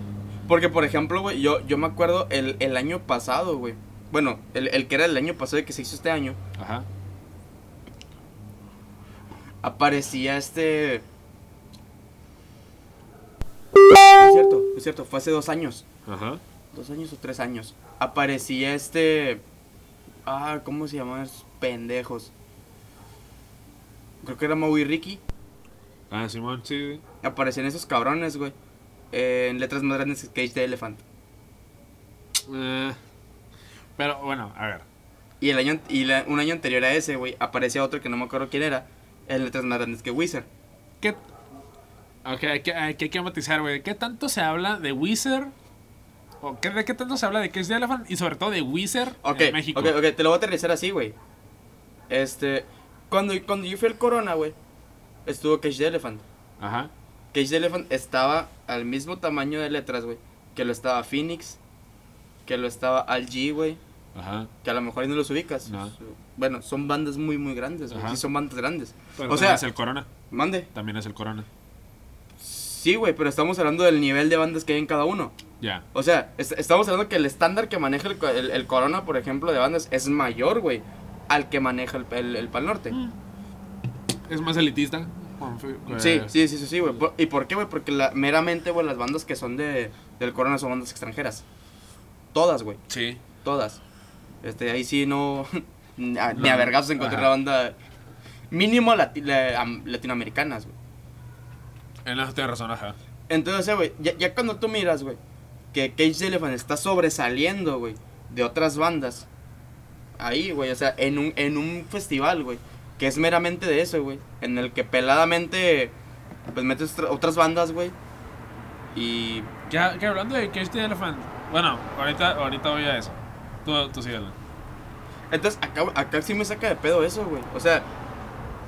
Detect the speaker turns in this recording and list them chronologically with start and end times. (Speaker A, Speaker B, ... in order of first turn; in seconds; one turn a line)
Speaker A: 0.5-6.4
Speaker B: 6.6-6.9
Speaker A: 9.6-11.1
Speaker A: 14.1-15.8
Speaker B: 16.1-16.4
Speaker A: 16.7-19.4
Speaker A: 20.3-22.3
Speaker A: 24.2-25.2
Speaker B: 26.1-27.0
Speaker A: 27.2-28.6
Speaker A: 29.1-31.0
Speaker B: 32.5-33.0
Speaker B: 34.0-34.9
Speaker A: 35.4-40.5
Speaker B: 42.2-45.5
Speaker B: 46.4-50.0
Speaker A: 49.2-51.2
Speaker A: 52.1-54.6
Speaker A: 55.3-56.2
Speaker B: 56.6-56.9
Speaker A: 57.3-61.6
Speaker A: 62.5-63.8
Speaker B: 64.2-64.5
Speaker A: 64.6-69.6
Speaker B: 65.7-66.0
Speaker B: 67.9-68.2
Speaker B: 69.2-70.1
Speaker A: 70.3-70.7
Speaker B: 70.7-71.5
Speaker A: 72.4-75.3
Speaker B: 75.6-75.9
Speaker A: 75.9-83.0
Speaker B: 84.3-86.3
Speaker A: 85.9-91.4
Speaker A: 92.3-92.8
Speaker B: 92.9-93.2
Speaker A: 93.4-93.8
Speaker A: 94.4-97.8
Speaker B: 96.3-97.3
Speaker A: 98.5-100.7
Speaker B: 102.0-103.0
Speaker A: 103.3-105.2
Speaker A: 105.7-109.3
Speaker A: 110.2-116.0
Speaker A: 116.5-118.0
Speaker A: 118.9-119.5
Speaker B: 119.7-124.4
Speaker A: 125.3-127.9